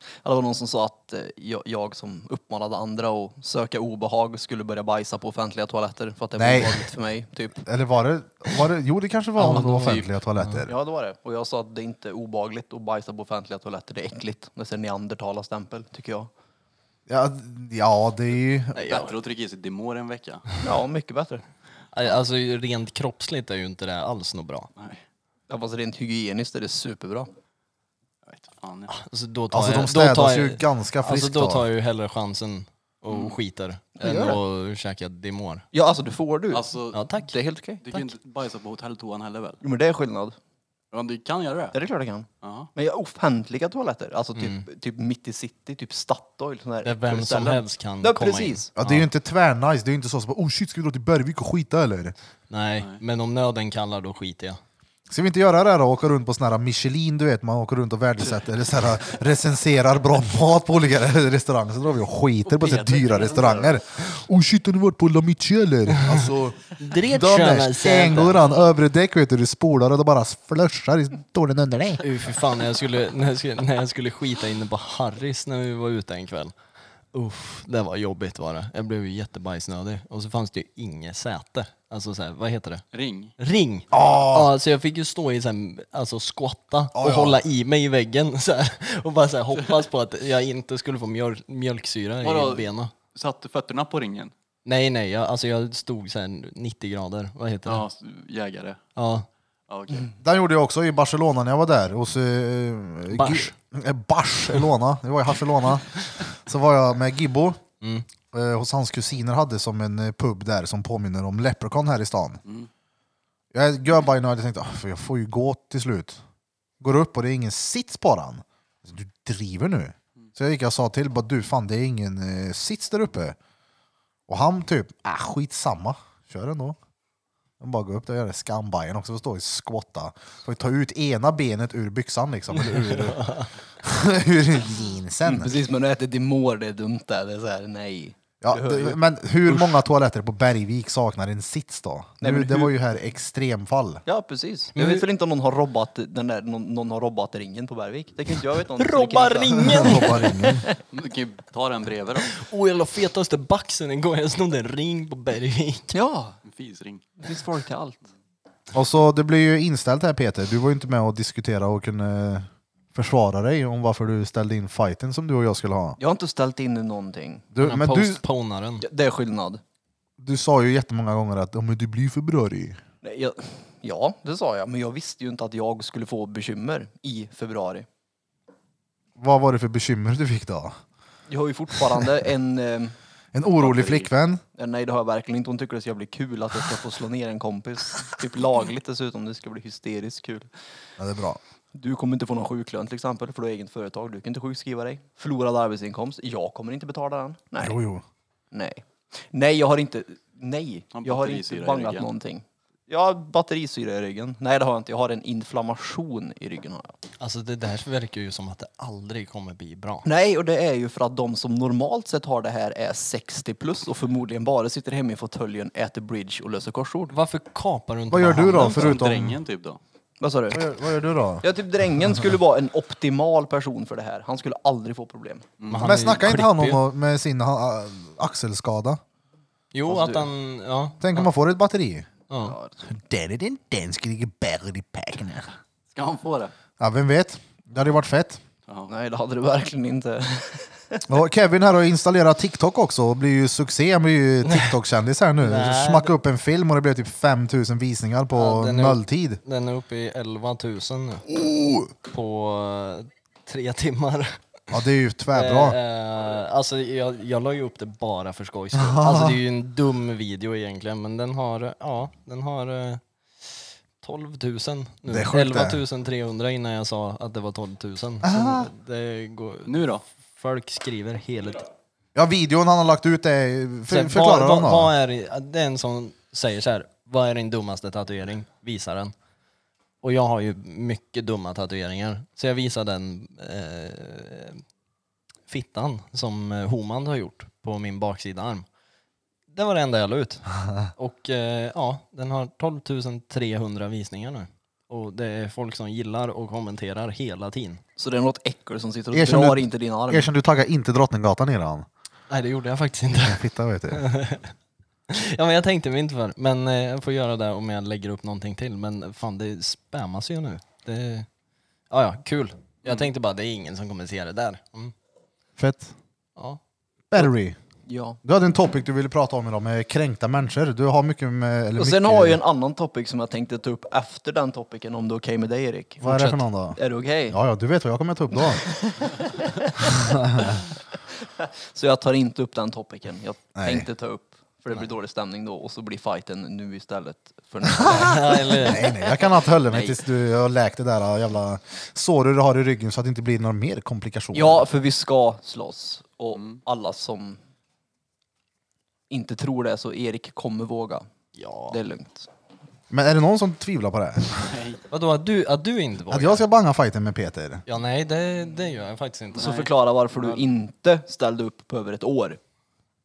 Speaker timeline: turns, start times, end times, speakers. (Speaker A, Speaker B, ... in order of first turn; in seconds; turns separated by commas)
Speaker A: 0.2-7.6, Speaker B: 6.4-6.8, Speaker B: 7.6-10.7, Speaker C: 9.4-10.6, Speaker A: 10.7-16.3, Speaker B: 17.1-19.0, Speaker D: 18.7-20.4, Speaker A: 20.6-21.4, Speaker C: 21.9-24.7, Speaker D: 24.8-25.0, Speaker A: 25.5-27.3, Speaker D: 28.2-28.9, Speaker C: 28.9-35.6, Speaker B: 29.5-31.6, Speaker D: 33.1-33.4, Speaker A: 34.0-34.4, Speaker A: 35.7-36.7, Speaker D: 36.5-37.0, Speaker C: 36.9-37.3, Speaker A: 37.3-37.8, Speaker D: 37.8-39.6, Speaker A: 39.6-40.4, Speaker D: 40.9-41.8, Speaker A: 41.7-48.7, Speaker D: 42.4-42.7, Speaker C: 44.4-44.6, Speaker C: 46.8-49.1, Speaker B: 48.8-52.1, Speaker C: 52.5-54.6, Speaker B: 55.1-72.0, Speaker D: 62.5-63.8, Speaker C: 66.8-68.5, Speaker C: 72.0-76.5, Speaker C: 77.1-82.8, Speaker D: 82.9-83.3, Speaker C: 83.4-92.9, Speaker B: 83.9-84.5, Speaker B: 86.9-87.4, Speaker D: 92.2-94.3, Speaker C: 94.6-97.8, Speaker D: 97.7-98.8, Speaker C: 99.0-99.2, Speaker D: 99.7-100.1, Speaker B: 100.2-107.6, Speaker C: 103.1-103.5, Speaker C: 107.8-108.0, Speaker B: 108.3-112.4, Speaker B: 113.5-116.2, Speaker B: 116.8-123.3, Speaker B: 124.3-126.8, Speaker B: 127.6-135.5, Speaker C: 132.6-133.5, Speaker A: 135.2-139.8, Speaker B: 138.4-144.0, Speaker A: 142.2-142.7, Speaker A: 144.1-150.1, Speaker C: 144.8-145.1, Speaker C: 148.8-150.5, Speaker B: 149.6-150.7, Speaker D: 150.9-152.4, Speaker C: 152.3-156.0, Speaker A: 155.9-156.3, Speaker D: 156.4-157.0, Speaker A: 157.2-158.1, Speaker B: 158.7-166.0, Speaker A: 166.0-167.4, Speaker B: 167.5-168.2, Speaker C: 167.6-168.8, Speaker A: 168.8-169.6, Speaker B: 170.2-172.8, Speaker A: 173.0-177.8, Speaker B: 179.2-180.8, Speaker A: 181.3-182.9, Speaker B: 183.3-184.4, Speaker D: 183.6-184.1, Speaker A: 184.6-190.5, Speaker B: 191.0-191.4, Speaker A: 191.7-197.8, Speaker B: 197.6-198.0, Speaker A: 198.5-206.9, Speaker D: 200.9-202.1, Speaker C: 207.2-210.1, Speaker A: 210.0-217.2, Speaker C: 217.1-219.0, Speaker B: 218.1-219.4, Speaker D: 218.5-219.8, Speaker A: 220.2-220.6, Speaker B: 220.5-221.4, Speaker A: 221.4-225.5, Speaker D: 225.6-226.1, Speaker C: 225.7-226.8, Speaker B: 225.8-229.0, Speaker C: 229.7-231.3, Speaker A: 229.9-230.3, Speaker B: 231.0-232.1, Speaker C: 232.3-232.6, Speaker A: 232.4-232.8, Speaker B: 232.8-235.5, Speaker D: 235.9-236.5, Speaker B: 236.8-238.4, Speaker D: 238.7-238.9, Speaker A: 238.9-241.0, Speaker B: 241.1-249.4, Speaker C: 244.4-244.7, Speaker C: 245.4-246.1, Speaker C: 248.3-251.2, Speaker B: 251.3-251.9, Speaker C: 252.1-254.4, Speaker B: 254.7-255.8, Speaker C: 255.3-269.8, Speaker B: 258.8-259.4, Speaker B: 265.1-265.8, Speaker B: 268.2-268.7, Speaker D: 269.6-270.0, Speaker C: 270.4-271.7, Speaker B: 272.1-274.9, Speaker C: 273.9-279.1, Speaker C: 280.0-284.6, Speaker C: 285.5-288.6, Speaker C: 289.5-297.8, Speaker A: 298.0-300.3, Speaker B: 299.1-301.9, Speaker C: 302.3-304.5, Speaker B: 303.2-304.0, Speaker C: 305.1-311.3, Speaker C: 311.9-314.9, Speaker B: 315.6-315.9, Speaker B: 317.1-317.6, Speaker A: 317.9-318.2, Speaker B: 318.2-322.4, Speaker A: 321.8-326.0, Speaker B: 326.0-326.8, Speaker C: 326.0-326.4, Speaker A: 326.8-327.4, Speaker B: 327.3-328.6, Speaker A: 328.4-339.3, Speaker B: 329.8-330.6, Speaker B: 333.5-333.9, Speaker B: 337.6-344.6, Speaker C: 337.9-338.9, Speaker A: 344.3-347.4, Speaker A: 349.1-351.1, Speaker C: 351.4-351.8, Speaker A: 351.7-352.3, Speaker B: 352.9-354.5, Speaker D: 354.4-354.8, Speaker C: 354.9-356.4, Speaker B: 356.1-357.6, Speaker C: 357.7-359.7, Speaker D: 359.3-359.7, Speaker A: 359.4-362.4